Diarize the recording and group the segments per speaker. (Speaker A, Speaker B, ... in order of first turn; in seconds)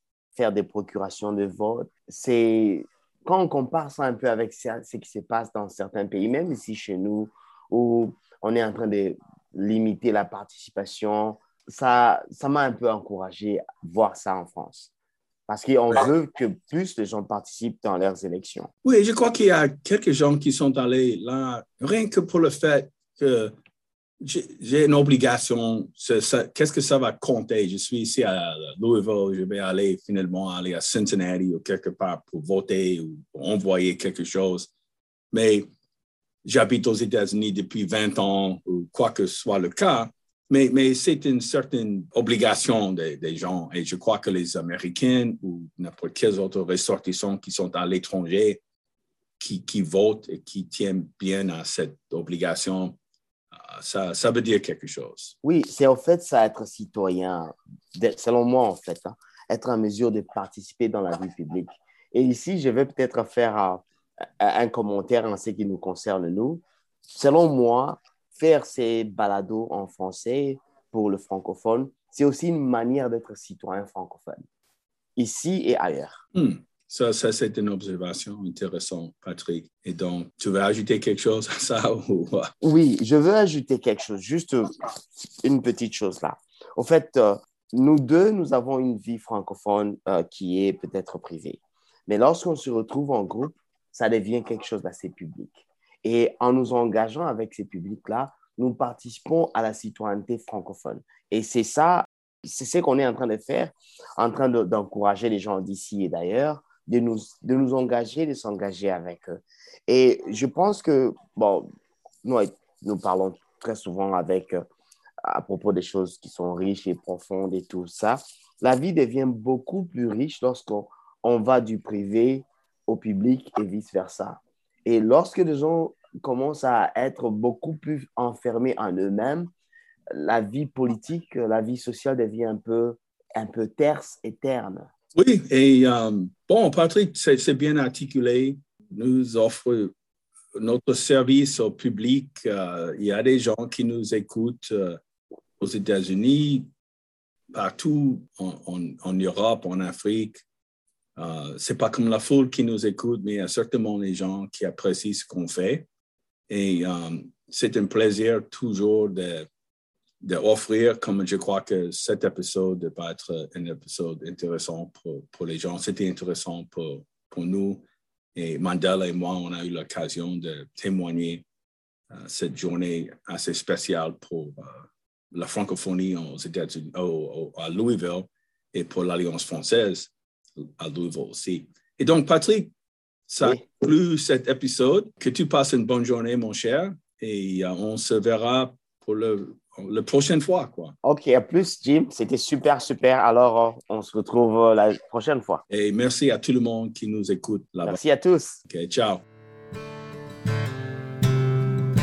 Speaker A: 0.3-14.9, 15.5-18.7, 55.4-63.8, 64.4-74.4, 75.2-76.2, 82.6-84.8, 85.4-111.7, 112.2-114.6, 115.2-129.5, 130.1-134.9, 191.0-195.6, 197.8-198.6
Speaker B: 18.8-23.6, 24.2-34.7, 35.3-35.7, 36.4-48.6, 49.4-53.0, 53.5-55.3, 76.3-82.5, 135.1-139.9, 140.5-145.0, 145.6-146.7, 147.5-150.4, 151.2-155.8, 156.5-159.5, 160.2-171.4, 172.1-182.7, 183.3-190.9, 195.7-198.0, 198.7-199.2